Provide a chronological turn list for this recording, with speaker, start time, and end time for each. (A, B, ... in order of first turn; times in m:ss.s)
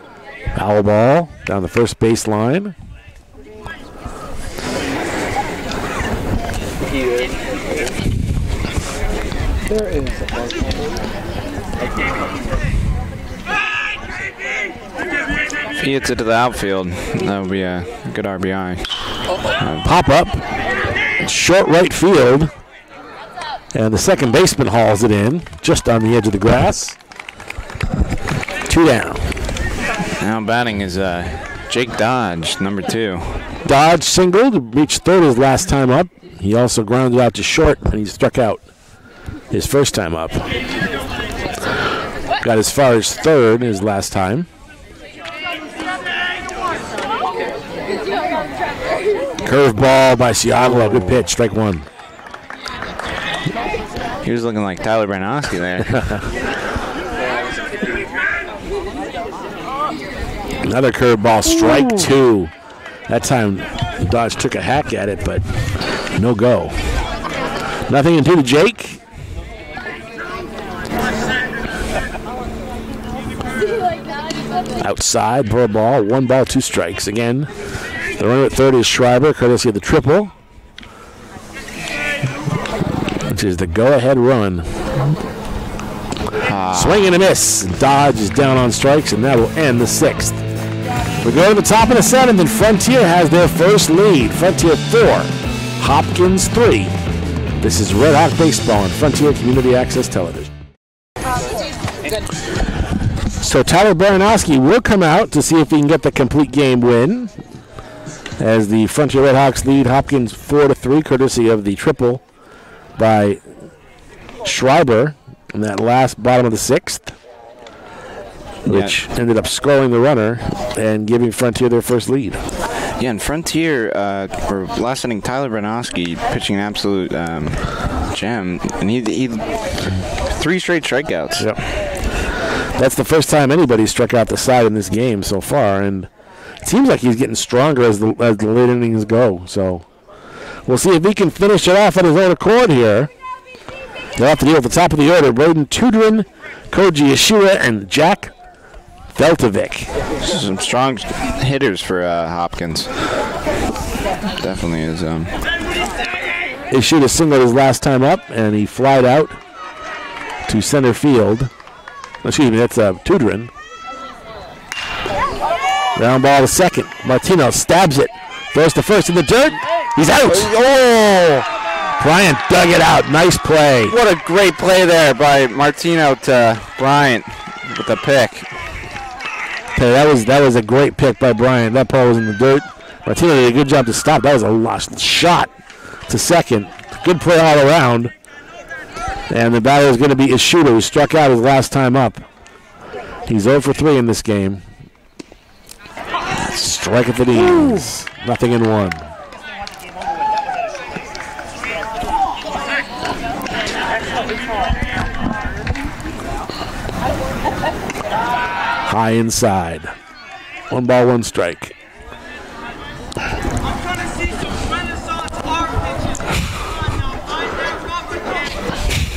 0:00.6-0:02.7 A
0:06.8-0:08.1 B
0:09.6-0:11.1 B
0:15.8-0:19.9 C
0:19.8-0:20.4 A
0:21.2-0:22.5 A
0:23.7-0:27.0 A
0:28.7-0:29.4 A
0:30.2-0:33.4 C
0:33.6-0:38.6 A
0:39.5-0:40.5 A
0:42.4-0:44.5 A
0:49.4-0:51.9 A
0:54.2-0:56.0 C
0:55.9-0:56.2 A
0:57.2-0:58.4 B
1:00.6-1:02.5 A
1:03.1-1:05.4 A
1:06.1-1:06.8 A
1:07.9-1:09.0 A
1:14.8-1:17.5 A
1:18.2-1:20.3 A
1:23.3-1:24.7 A
1:26.4-1:27.1 C
1:26.7-1:30.4 A
1:31.2-1:37.0 A
1:37.6-1:40.5 A
1:43.4-1:47.3 A
1:48.4-1:52.2 A
1:53.0-1:53.4 A
1:54.4-1:57.2 A
1:58.6-2:02.4 A
1:58.7-1:59.0 C
2:03.0-2:09.7 C
2:10.2-2:11.5 C
2:11.4-2:11.6 A
2:12.8-2:16.1 A
2:16.6-2:19.9 A
2:20.6-2:23.1 A
2:24.2-2:28.3 A
2:29.1-2:29.9 A
2:30.2-2:33.0 C
2:34.4-2:35.4 C
2:36.7-2:39.4 A
2:40.5-2:41.5 A
2:42.2-2:43.5 A
2:46.0-2:50.5 A
2:50.2-2:51.5 C
2:52.0-2:54.0 A
2:53.9-2:58.5 C
2:59.8-3:05.5 A
3:06.1-3:08.1 A
3:09.3-3:12.3 A
3:13.3-3:14.6 A
3:16.6-3:19.1 A
3:28.8-3:29.9 A
3:30.7-3:31.8 A